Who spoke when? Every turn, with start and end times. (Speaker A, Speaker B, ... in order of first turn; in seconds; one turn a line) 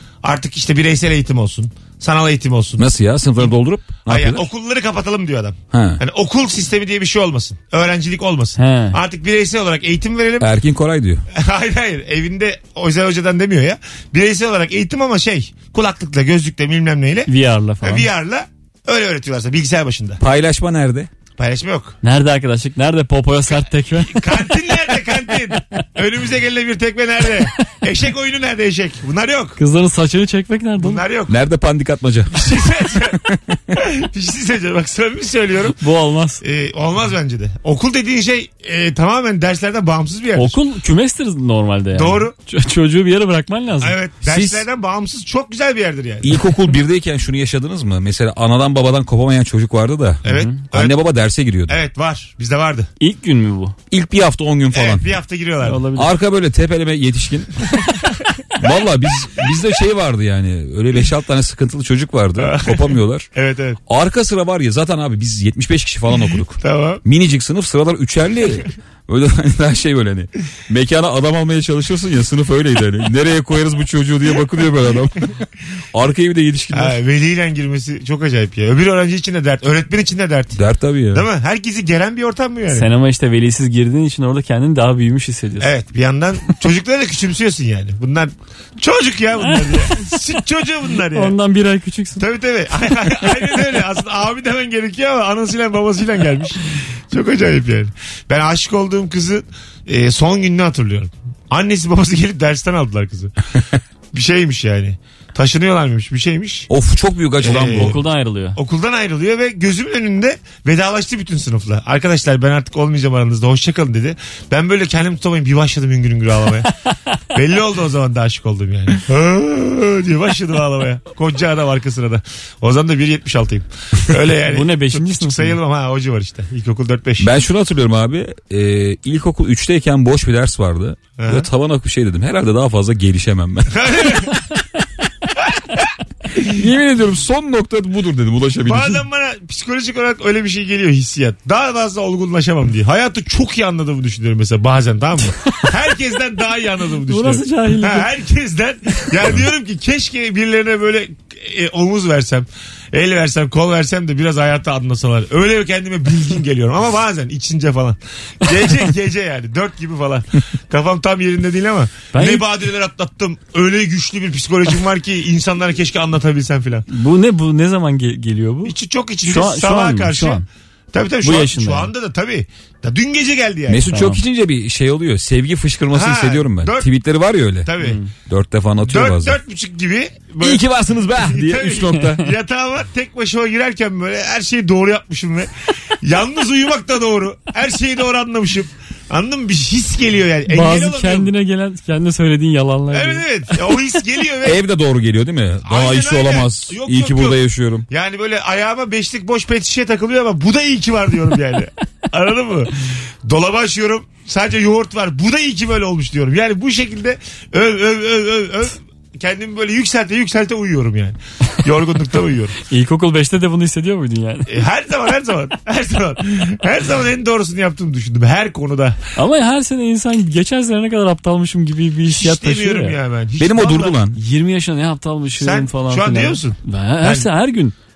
Speaker A: 0.2-2.9
Speaker B: 2.8-4.5
Speaker A: 4.0-10.5
Speaker B: 5.7-6.0
Speaker C: 8.6-9.0
Speaker B: 10.4-11.2
Speaker A: 11.3-17.3
Speaker C: 17.3-18.1
Speaker A: 17.8-20.2
Speaker B: 20.2-21.1
Speaker A: 21.4-22.0
Speaker C: 22.0-24.8
Speaker A: 24.0-29.6
Speaker C: 29.6-31.0
Speaker A: 30.8-31.4
Speaker B: 31.3-32.6
Speaker A: 32.3-35.8
Speaker B: 33.3-33.8
Speaker C: 35.8-36.4
Speaker A: 36.4-40.6
Speaker C: 40.4-44.0
Speaker A: 41.9-42.3
Speaker A: 43.8-46.3
Speaker B: 44.2-44.6
Speaker B: 46.2-51.8
Speaker A: 50.2-51.0
Speaker C: 50.3-50.6
Speaker A: 51.7-52.9
Speaker C: 53.0-53.8
Speaker B: 53.9-55.1
Speaker A: 54.7-55.9
Speaker C: 55.6-56.1
Speaker B: 56.0-57.5
Speaker B: 58.6-63.3
Speaker A: 62.4-63.8
Speaker B: 63.9-75.4
Speaker A: 66.6-67.0
Speaker B: 75.9-77.0
Speaker A: 76.7-80.6
Speaker B: 80.5-81.3
Speaker A: 81.1-82.9
Speaker C: 82.7-85.7
Speaker A: 85.6-91.3
Speaker C: 89.5-90.1
Speaker C: 91.1-92.2
Speaker A: 92.2-103.3
Speaker A: 104.1-106.7
Speaker B: 106.7-108.0
Speaker A: 107.4-108.0
Speaker C: 107.5-108.6
Speaker A: 108.5-116.7
Speaker A: 117.3-127.3
Speaker C: 124.5-125.6
Speaker B: 127.2-134.3
Speaker A: 131.2-131.5
Speaker A: 133.7-134.4
Speaker A: 135.5-135.8
Speaker B: 136.4-139.0
Speaker A: 138.6-166.9
Speaker C: 147.1-148.1
Speaker C: 162.1-162.5
Speaker C: 166.9-170.5
Speaker A: 168.7-173.9
Speaker C: 171.2-171.9
Speaker B: 173.7-179.4
Speaker C: 173.9-174.2
Speaker A: 175.9-176.9
Speaker A: 177.6-178.0
Speaker C: 177.8-178.1
Speaker A: 178.8-180.6
Speaker B: 180.4-182.3
Speaker A: 181.2-191.3
Speaker C: 190.5-193.2
Speaker A: 192.9-194.6
Speaker B: 194.4-197.9
Speaker A: 195.7-212.6
Speaker C: 212.7-214.6
Speaker A: 214.5-219.0
Speaker C: 219.2-223.0
Speaker A: 222.1-224.0
Speaker B: 223.4-224.2
Speaker C: 224.2-227.7
Speaker A: 225.4-227.3